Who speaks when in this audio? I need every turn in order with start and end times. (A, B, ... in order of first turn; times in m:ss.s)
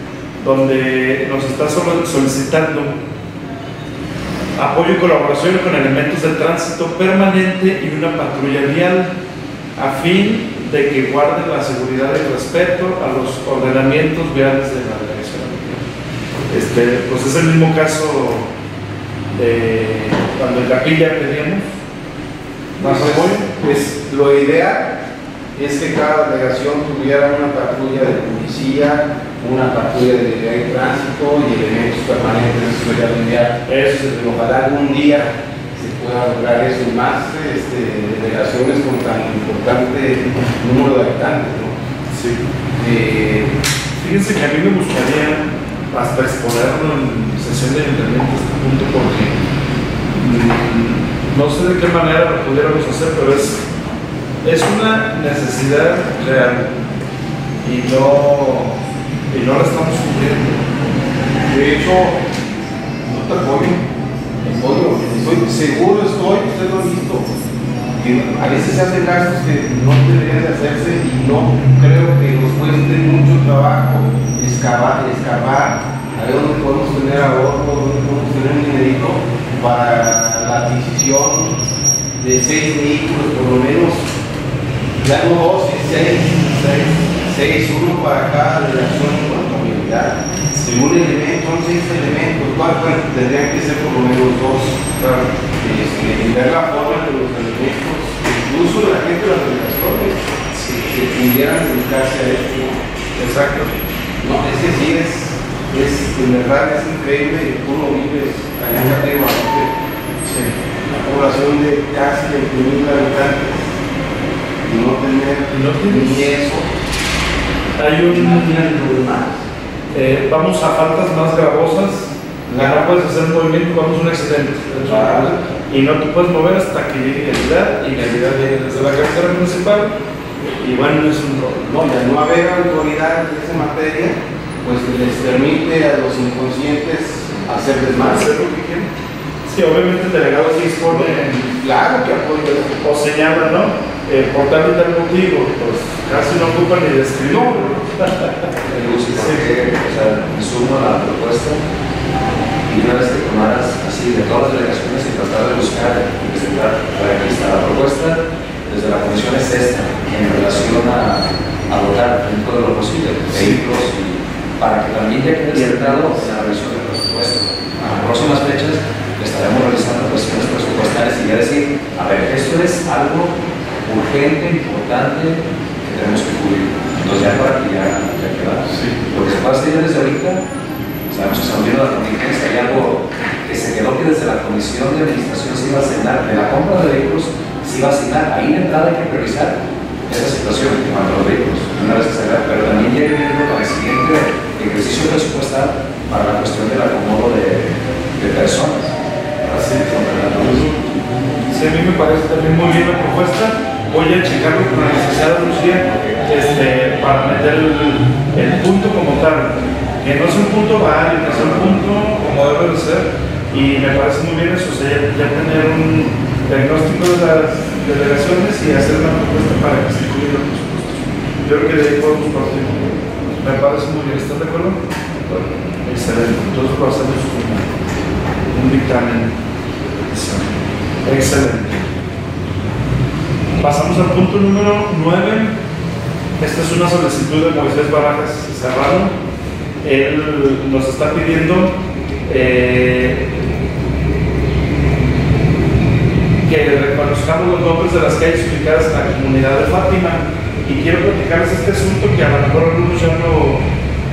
0:00.4-0:03.0 A
0:04.6-0:09.1 A
0:09.8-0:15.8 A
0:16.5-0:18.5 A
0:19.3-0:21.7 A
0:22.8-0:23.5 A
0:22.8-0:25.0 B
0:25.5-0:41.8 B
0:33.6-0:34.4 A
0:42.1-0:42.4 A
0:42.8-0:43.5 B
0:44.0-0:49.3 A
0:50.1-0:53.6 A
0:54.4-0:56.7 A
0:57.6-0:58.8 A
0:59.3-1:00.6 A
1:01.5-1:02.2 B
1:03.0-1:03.8 B
1:04.4-1:07.3 B
1:08.0-1:21.6 B
1:22.2-1:24.1 B
1:25.0-1:34.8 B
1:35.0-1:35.3 A
1:35.6-1:40.3 B
1:40.5-1:40.9 A
1:40.9-1:42.8 B
1:43.2-1:43.7 A
1:44.2-1:49.7 B
1:50.2-1:50.5 A
1:50.9-1:53.7 B
1:54.6-1:56.7 B
1:55.5-1:56.3 A
1:57.8-1:59.0 A
1:58.4-1:59.4 B
1:59.9-2:09.9 A
2:02.5-2:02.8 B
2:04.8-2:05.4 B
2:10.4-2:11.6 A
2:11.6-2:18.3 B
2:18.0-2:18.9 A
2:19.5-2:21.5 A
2:20.8-2:22.8 B
2:22.8-2:28.5 A
2:28.7-2:31.6 C
2:29.1-2:29.5 A
2:32.7-3:00.4 C
2:45.5-2:46.2 A
3:01.1-3:09.6 C
3:10.1-3:18.9 C
3:19.4-3:20.7 C
3:19.5-3:19.8 A
3:20.4-3:20.8 A
3:21.5-3:47.7 A
3:25.8-3:26.3 C
3:31.4-3:31.7 C
3:48.5-3:49.4 A
3:50.1-3:51.9 A
3:53.6-3:55.6 A
3:56.4-3:59.1 A
3:59.8-4:01.7 A
4:02.3-4:03.4 A
4:06.4-4:13.6 A